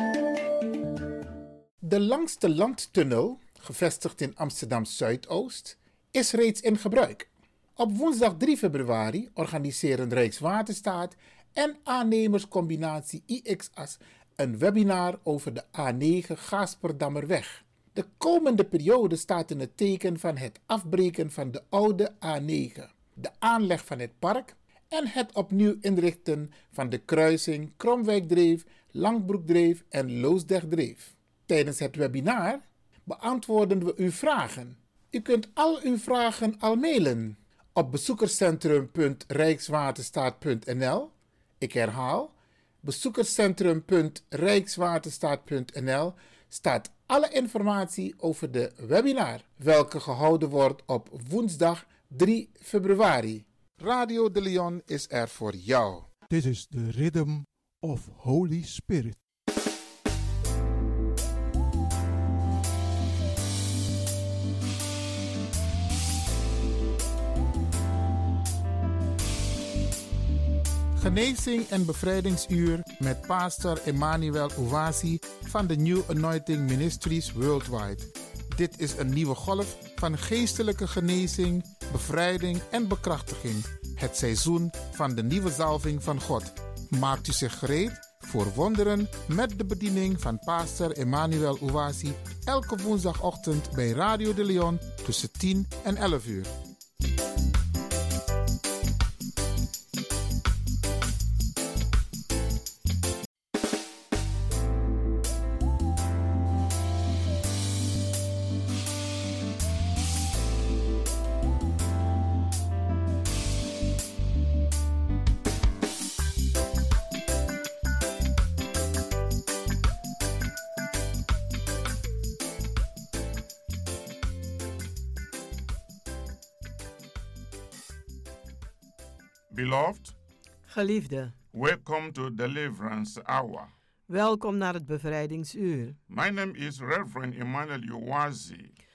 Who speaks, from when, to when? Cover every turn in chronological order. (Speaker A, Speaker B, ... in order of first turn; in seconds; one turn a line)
Speaker A: 1.8-56.1
Speaker B: 56.3-59.2
Speaker A: 71.0-96.5
Speaker C: 129.5-130.1
Speaker D: 130.7-131.3
Speaker C: 131.5-133.7
Speaker D: 134.1-135.9
Speaker C: 136.1-138.7